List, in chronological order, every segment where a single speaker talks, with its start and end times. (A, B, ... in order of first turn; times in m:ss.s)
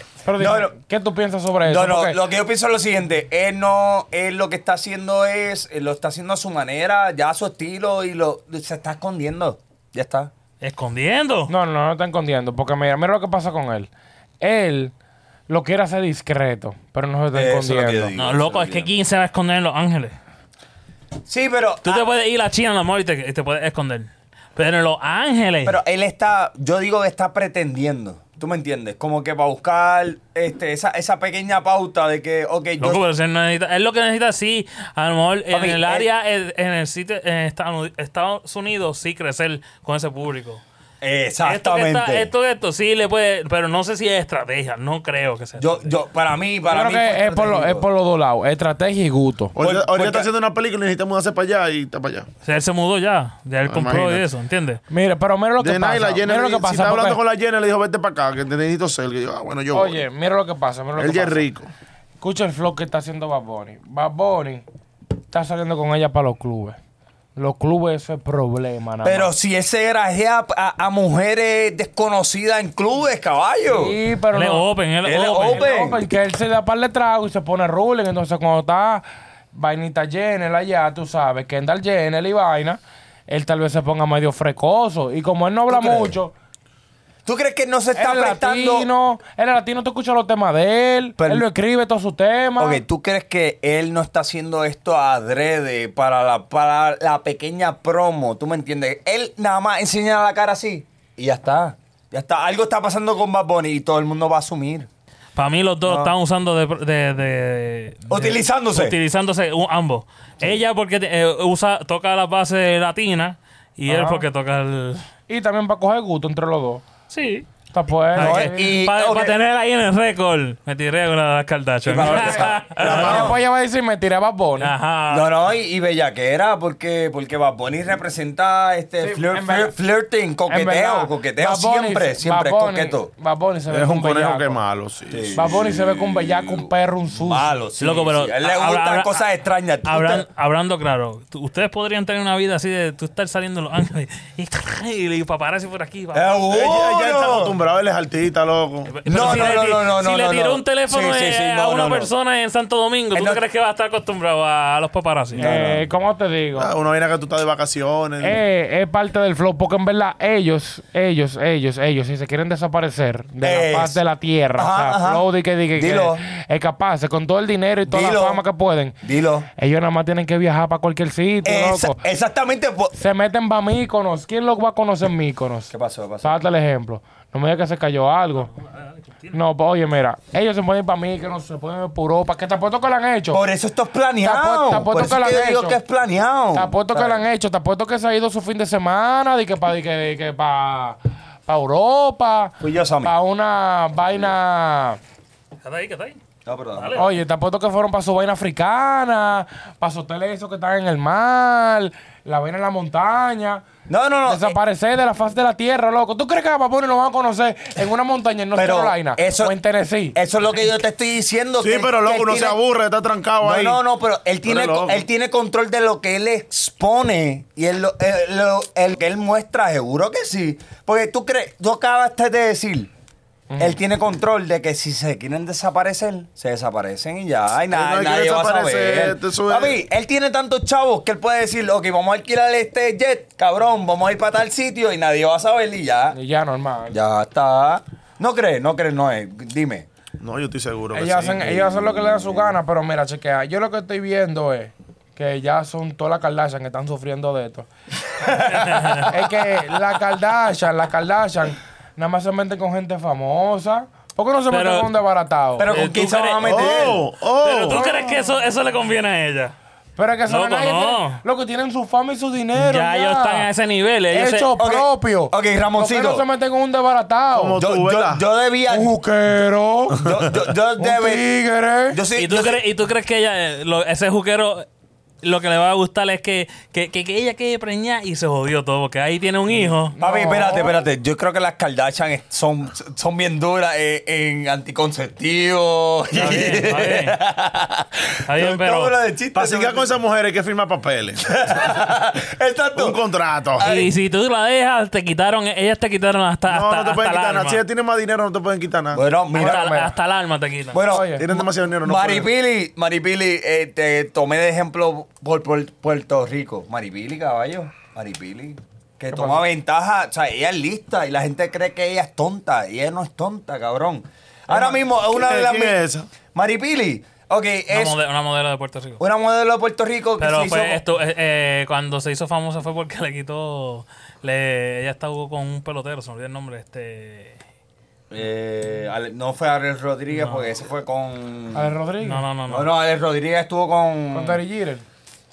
0:00.2-0:02.2 A
0:00.4-0:00.7 B
0:01.6-0:10.3 B
0:10.6-0:11.5 C
0:11.5-0:14.9 A
0:15.5-0:18.2 A
0:17.3-0:18.9 B
0:18.2-0:20.1 C
0:21.2-0:22.1 B
0:21.8-0:25.8 C
0:25.6-0:33.0 B
0:32.8-0:40.6 C
0:35.5-0:36.0 B
0:41.0-0:42.3 B
0:41.4-0:45.9 C
0:45.6-0:47.8 B
0:46.7-0:49.5 A
0:49.5-0:52.3 D
0:49.6-0:50.3 B
0:52.4-0:54.8 C
0:53.6-0:54.2 D
0:54.9-0:57.2 A
0:55.6-1:00.0 D
0:59.7-1:01.5 A
1:01.0-1:01.7 D
1:02.2-1:04.6 A
1:05.3-1:06.8 A
1:07.4-1:09.3 A
1:09.0-1:14.0 B
1:13.7-1:14.7 A
1:14.3-1:15.7 C
1:15.0-1:16.0 B
1:15.4-1:26.3 A
1:25.7-1:26.1 B
1:27.2-1:28.9 B
1:27.9-1:32.8 A
1:31.2-1:31.4 B
1:32.6-1:44.9 B
1:45.4-1:55.0 C
1:45.8-1:46.1 B
1:48.1-1:48.9 B
1:53.9-1:54.2 A
1:55.3-1:56.8 A
1:57.1-1:57.5 C
1:57.7-1:58.8 A
1:58.1-2:03.3 C
1:58.2-1:59.3 B
2:01.8-2:03.4 B
2:02.1-2:04.7 A
2:02.8-2:03.3 D
2:04.6-2:05.3 C
2:05.1-2:13.1 B
2:09.0-2:09.7 A
2:10.5-2:14.6 A
2:13.7-2:15.6 D
2:15.1-2:20.2 B
2:15.3-2:17.5 A
2:17.8-2:19.3 C
2:19.8-2:26.4 C
2:26.1-2:27.5 B
2:26.5-2:29.6 D
2:28.9-2:35.5 C
2:29.1-2:32.1 B
2:33.1-2:33.4 B
2:35.4-2:35.8 D
2:35.4-2:36.7 A
2:36.6-2:38.4 D
2:38.2-2:49.0 A
2:43.4-2:44.0 B
2:44.6-2:46.2 B
2:47.9-2:48.4 B
2:49.0-2:49.5 B
2:49.6-2:52.0 A
2:51.4-2:52.9 B
2:52.9-2:55.7 A
2:55.7-2:56.4 B
2:56.2-2:58.5 A
2:58.6-2:59.3 C
2:59.3-3:03.4 A
3:03.3-3:07.2 B
3:04.2-3:05.8 A
3:06.5-3:15.0 A
3:12.6-3:13.1 B
3:15.6-3:16.2 C
3:16.4-3:17.1 B
3:16.7-3:17.1 C
3:17.0-3:23.6 A
3:23.9-3:24.6 B
3:24.2-3:30.2 A
3:28.5-3:29.6 B
3:30.1-3:32.6 B
3:31.6-3:33.8 D
3:33.4-3:42.9 B
3:34.4-3:35.0 D
3:43.5-3:43.8 A
3:43.6-3:56.2 B
3:47.7-3:49.8 D
3:56.1-3:57.0 A
3:56.9-3:59.9 B
4:00.2-4:02.5 D
4:00.9-4:07.7 A
4:08.1-4:09.3 B
4:08.6-4:09.0 C
4:09.1-4:15.7 A
4:14.5-4:14.9 C
4:15.6-4:17.0 B
4:15.6-4:19.5 C
4:16.4-4:17.8 D
4:17.7-4:18.3 A
4:20.0-4:23.5 A
4:20.3-4:21.2 C
4:22.6-4:24.5 C
4:24.1-4:27.6 A
4:24.6-4:26.2 B
4:27.3-4:28.2 D
4:27.6-4:28.9 B
4:28.7-4:30.0 A
4:30.0-4:31.2 B
4:30.0-4:30.3 D
4:30.8-4:32.0 A
4:31.9-4:32.6 B
4:32.1-4:34.6 C
4:35.2-4:39.9 C
4:39.9-4:40.8 A
4:40.0-4:49.9 B
4:46.1-4:47.2 C
4:48.2-4:48.9 C
4:49.3-4:51.2 D
4:51.2-4:53.0 B
4:52.7-4:53.6 D
4:53.6-4:53.9 B
4:53.6-4:57.6 C
4:56.5-4:59.0 D
4:58.9-4:59.7 B
4:59.3-5:00.0 A
4:59.3-5:00.8 C
5:00.7-5:15.8 B
5:00.8-5:01.3 A
5:01.2-5:02.3 D
5:09.1-5:09.4 A
5:14.5-5:14.8 A
5:15.0-5:16.1 D
5:16.3-5:18.0 B
5:17.7-5:19.0 C
5:19.0-5:20.8 B
5:20.2-5:27.4 C
5:28.1-5:31.7 B
5:30.1-5:30.5 C
5:31.5-5:32.2 A
5:32.0-5:32.7 C
5:32.5-5:34.4 B
5:34.1-5:34.8 A